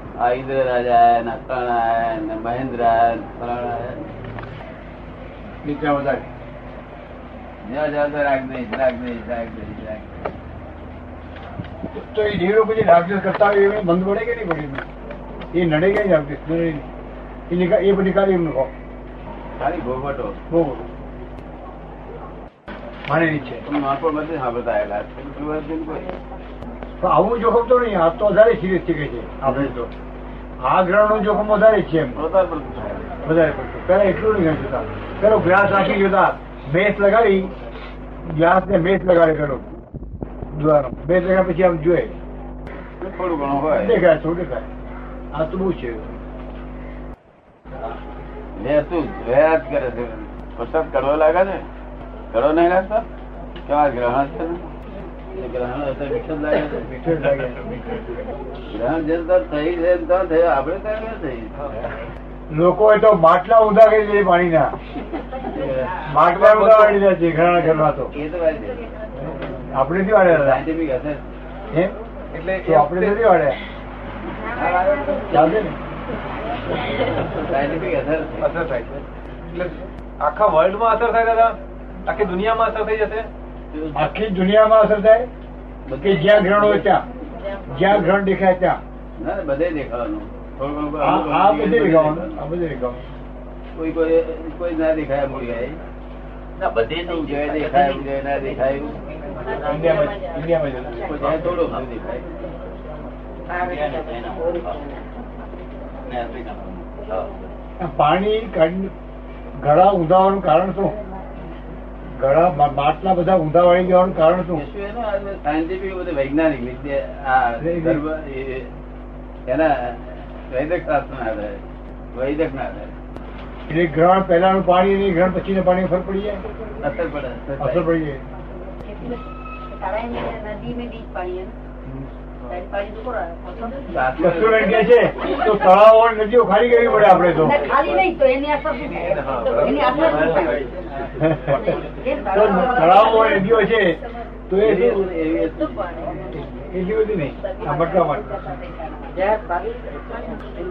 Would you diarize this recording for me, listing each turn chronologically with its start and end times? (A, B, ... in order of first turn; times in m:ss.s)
0:00.2-0:04.0 A
0:05.6-0:06.3 B
0:07.6-0:10.3 A
0:11.9-0:14.8 B
0:15.5-0:16.9 B
0:17.5-0:18.7 B
0:19.6-0:20.4 A
0:20.5-0:20.9 B
0:23.1-0:23.6 B
0:23.6-0:26.1 A
0:27.0-0:29.9 B
0:30.6-0:32.2 B
0:32.2-0:33.1 A
0:33.2-0:37.5 B
0:38.2-0:39.7 B
0:40.5-0:42.2 B
0:43.0-0:44.0 A
0:43.7-0:44.7 B
0:45.3-0:46.1 B
0:48.6-0:51.6 A
0:52.3-0:53.1 A
0:53.7-0:54.7 A
0:55.3-0:56.9 A
0:56.9-0:57.7 B
0:58.7-1:01.5 A
1:02.5-1:04.7 B
1:05.5-1:05.9 A
1:06.1-1:08.1 B
1:06.2-1:07.0 C
1:07.6-1:08.9 A
1:09.7-1:10.6 B
1:10.2-1:11.2 A
1:11.7-1:12.0 B
1:12.3-1:13.2 C
1:12.6-1:13.6 B
1:14.5-1:15.6 A
1:15.3-1:15.7 B
1:17.2-1:18.5 A
1:18.4-1:23.3 C
1:23.7-1:24.1 A
1:23.9-1:25.3 B
1:25.8-1:26.9 A
1:26.0-1:27.1 B
1:27.7-1:28.8 B
1:29.2-1:32.4 A
1:31.0-1:33.0 B
1:33.8-1:35.8 A
1:36.6-1:38.1 D
1:37.0-1:39.0 A
1:39.6-1:41.6 B
1:41.0-1:42.3 A
1:41.5-1:41.8 D
1:43.6-1:45.0 D
1:46.0-1:47.4 D
1:47.8-1:48.9 B
1:49.6-1:51.0 B
1:52.2-1:54.6 B
1:54.5-1:58.7 A
1:57.6-1:58.0 B
1:59.5-2:01.6 A
2:02.1-2:02.9 A
2:03.7-2:06.4 B
2:06.8-2:07.9 A
2:07.6-2:08.2 B
2:10.1-2:11.5 E
2:13.9-2:14.9 A
2:14.2-2:17.7 B
2:17.3-2:20.6 E
2:18.9-2:20.7 C
2:21.2-2:25.1 B
2:22.0-2:23.4 E
2:24.6-2:25.9 A
2:26.6-2:28.4 B